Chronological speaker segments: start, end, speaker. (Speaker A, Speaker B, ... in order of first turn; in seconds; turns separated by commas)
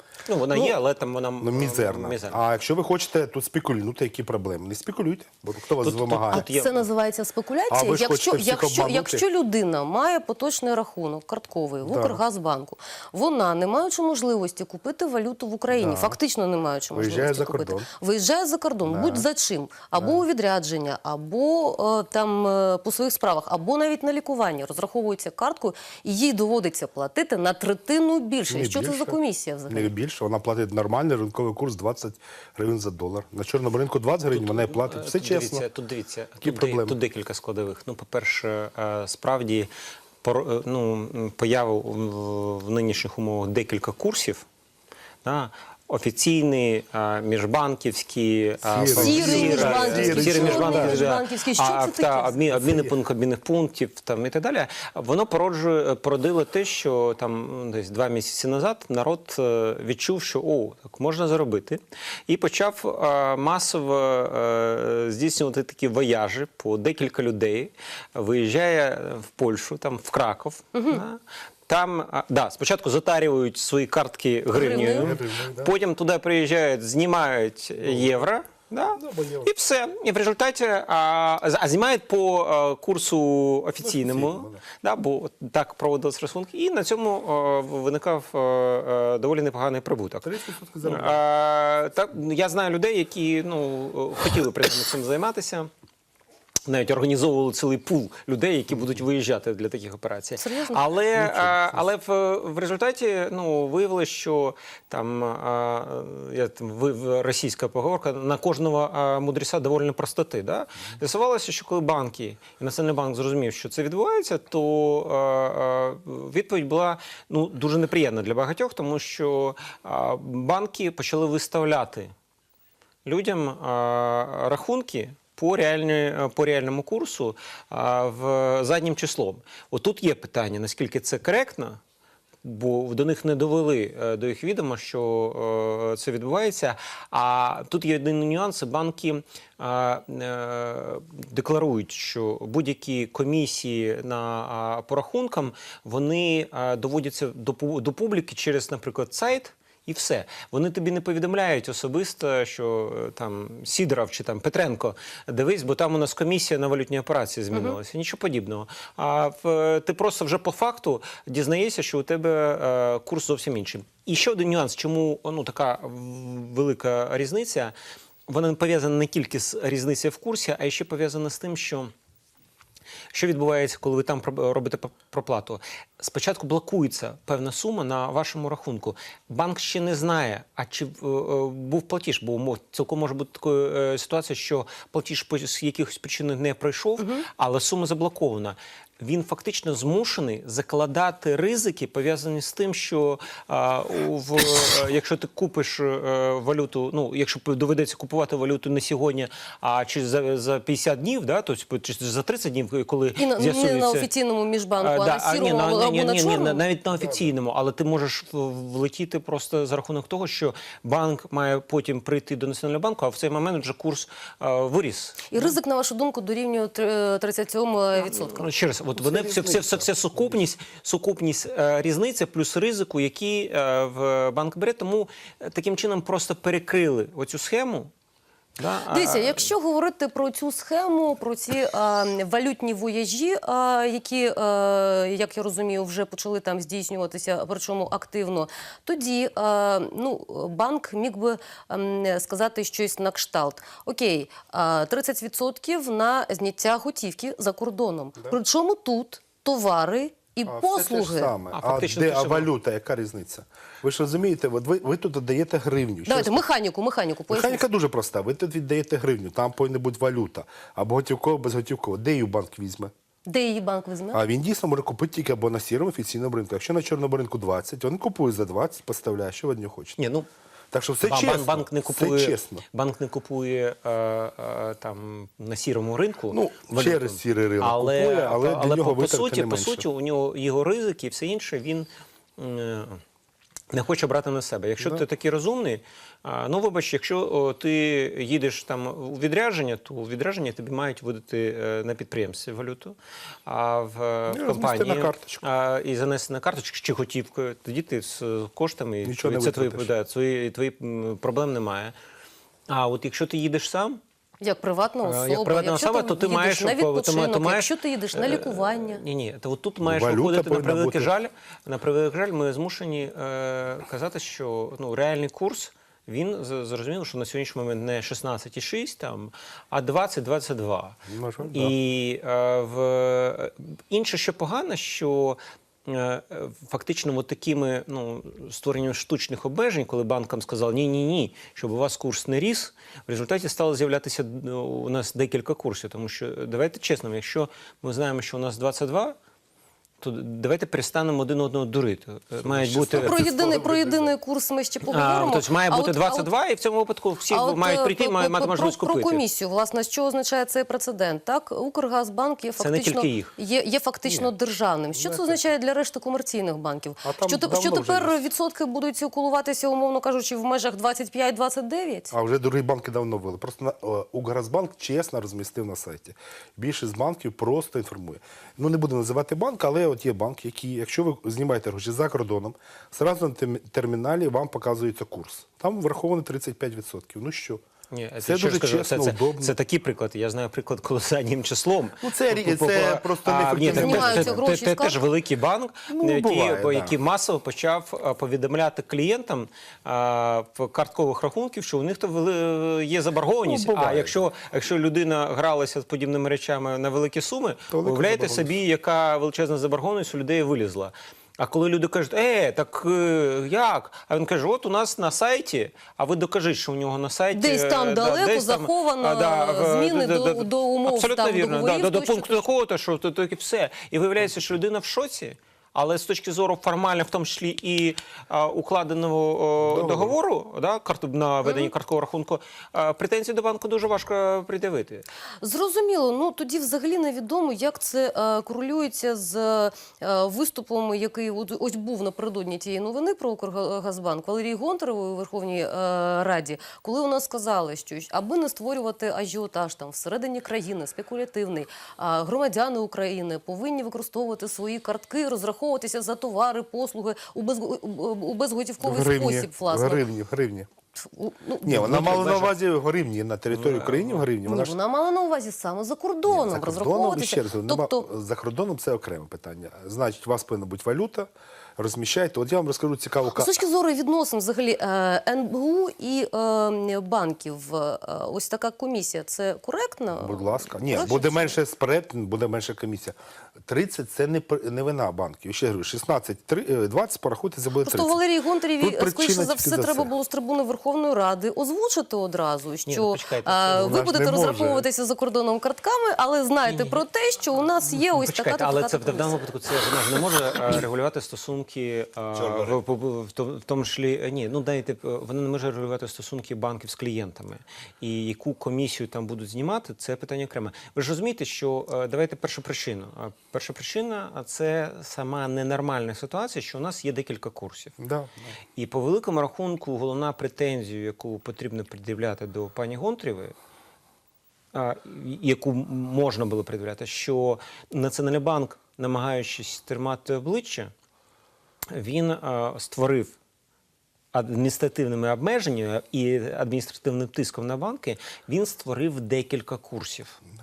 Speaker A: 0.3-2.4, Speaker B: 1.4-6.5, Speaker A: 5.8-6.8, Speaker C: 6.3-29.9, Speaker B: 7.7-9.2, Speaker B: 11.8-12.2, Speaker B: 15.7-16.2, Speaker B: 16.9-17.9, Speaker B: 18.9-19.3, Speaker B: 20.0-20.2, Speaker B: 28.5-29.2, Speaker B: 29.7-35.6, Speaker A: 34.3-39.7, Speaker B: 36.4-37.0, Speaker A: 40.2-44.5, Speaker A: 45.2-95.7, Speaker B: 48.6-51.0, Speaker C: 49.0-52.4, Speaker B: 52.5-53.0, Speaker C: 70.7-71.0, Speaker C: 74.5-75.1, Speaker B: 74.7-75.7, Speaker B: 77.8-78.3, Speaker B: 79.0-79.5, Speaker B: 83.8-84.6, Speaker B: 90.2-91.2, Speaker A: 96.7-122.1, Speaker C: 100.4-100.8, Speaker B: 101.2-101.9, Speaker A: 123.0-131.8, Speaker A: 132.4-167.7, Speaker A: 168.3-171.9, Speaker A: 173.1-204.1, Speaker C: 187.0-187.3, Speaker C: 203.2-206.6, Speaker A: 204.8-215.6, Speaker B: 207.0-207.3, Speaker C: 215.3-218.5, Speaker A: 218.0-227.9, Speaker B: 219.0-220.4, Speaker A: 228.6-229.5, Speaker C: 228.9-251.3, Speaker B: 250.4-256.4, Speaker A: 251.5-252.5, Speaker C: 256.1-257.6, Speaker B: 257.3-262.9, Speaker C: 263.3-264.2, Speaker B: 264.1-270.0, Speaker A: 270.0-270.3, Speaker B: 270.7-272.6, Speaker A: 271.0-281.9, Speaker B: 276.3-279.9, Speaker A: 282.4-283.0, Speaker A: 283.7-301.9, Speaker B: 294.3-295.4, Speaker B: 299.0-299.9, Speaker A: 302.7-304.0, Speaker C: 304.4-309.0, Speaker A: 305.0-339.2, Speaker B: 309.8-311.1, Speaker B: 321.1-321.8, Speaker A: 340.0-343.2, Speaker B: 342.4-344.1, Speaker C: 343.0-346.3, Speaker A: 344.9-349.2, Speaker C: 347.3-362.1, Speaker A: 352.6-353.3, Speaker B: 354.1-354.3, Speaker B: 354.9-355.4, Speaker B: 357.0-358.2, Speaker B: 362.1-377.6, Speaker A: 377.9-425.1, Speaker B: 378.2-379.6, Speaker B: 382.0-384.4, Speaker C: 383.7-385.0, Speaker B: 385.9-387.0, Speaker B: 393.4-394.1, Speaker B: 397.7-398.6, Speaker C: 407.3-412.4, Speaker B: 419.6-420.2, Speaker C: 421.4-421.7, Speaker C: 425.4-450.0, Speaker B: 448.8-450.7, Speaker C: 451.0-452.1, Speaker B: 451.6-454.8, Speaker A: 451.8-452.5, Speaker A: 453.5-454.3, Speaker C: 454.4-458.1, Speaker B: 456.3-463.5, Speaker C: 463.3-471.6, Speaker B: 470.2-478.2, Speaker C: 477.8-489.3, Speaker B: 478.8-480.1, Speaker A: 482.9-484.0, Speaker B: 483.8-484.9, Speaker A: 486.6-487.0, Speaker A: 487.9-507.9, Speaker B: 492.3-492.8, Speaker B: 508.0-508.6, Speaker A: 508.8-513.5, Speaker A: 514.7-520.9, Speaker A: 521.9-523.3, Speaker A: 524.3-530.4